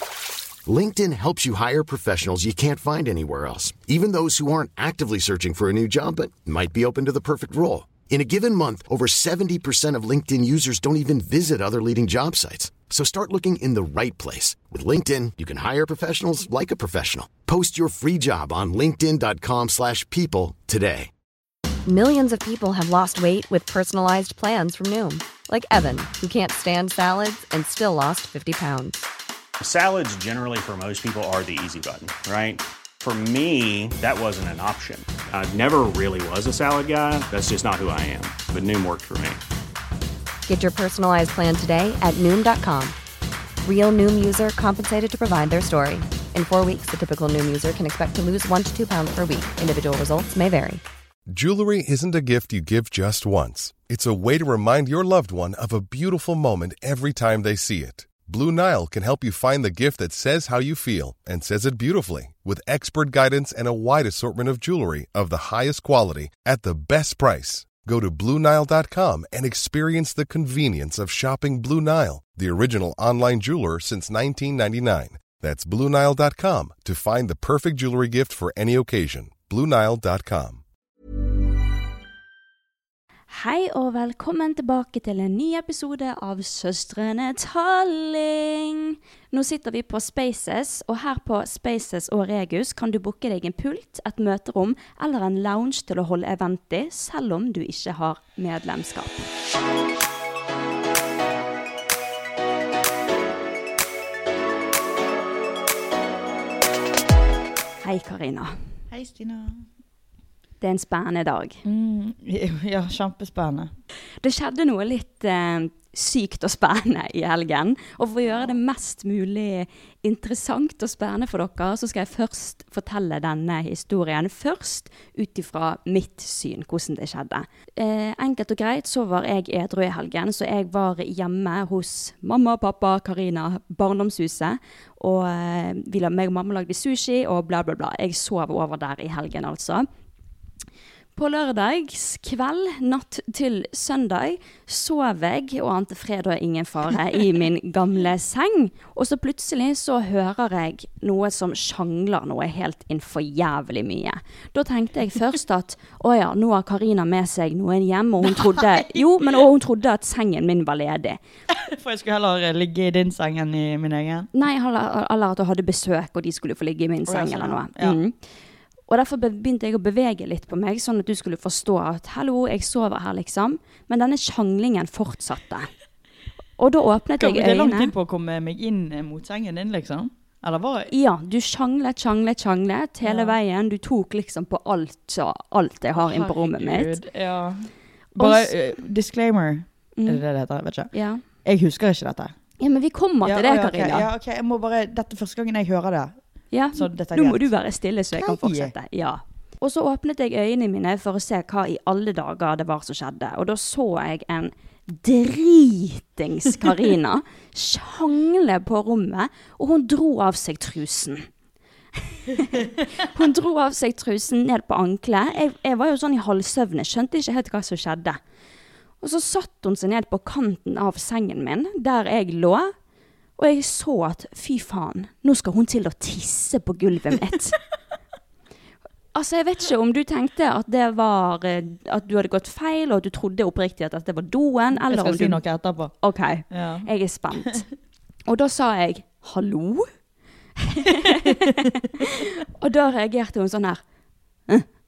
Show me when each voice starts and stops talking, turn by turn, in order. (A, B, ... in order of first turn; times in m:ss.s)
0:00.6-0:21.1 A
0:21.8-0:29.0 B
0:29.6-0:39.4 C
0:40.4-0:43.0 B
0:43.6-0:50.8 B
0:51.3-1:20.6 D
1:23.3-1:39.3 E
1:47.8-1:48.5 E
1:48.9-1:49.6 F
1:50.6-1:51.6 E
1:51.6-1:53.7 F
1:54.2-2:19.8 E
2:21.2-2:41.2 E
2:38.2-2:39.3 F
2:41.5-2:44.3 F
2:44.3-2:48.1 E
2:47.1-2:48.0 F
2:48.9-2:55.7 E
2:56.6-2:57.9 E
2:57.2-3:00.9 F
3:00.9-3:07.0 E
3:03.0-3:03.4 F
3:05.9-3:10.9 F
3:08.2-3:08.5 E
3:10.9-3:11.2 E
3:11.4-3:12.3 F
3:12.6-3:14.1 E
3:13.2-3:16.1 F
3:16.5-3:31.3 E
3:16.7-3:17.5 F
3:18.1-3:18.7 F
3:32.0-3:38.2 E
3:39.0-3:42.7 E
3:43.4-3:47.6 E
3:49.1-3:55.4 E
3:54.9-3:55.9 F
3:56.0-3:57.6 E
3:56.5-3:56.9 F
3:58.3-3:59.9 E
4:00.6-4:03.8 E
4:01.0-4:01.5 F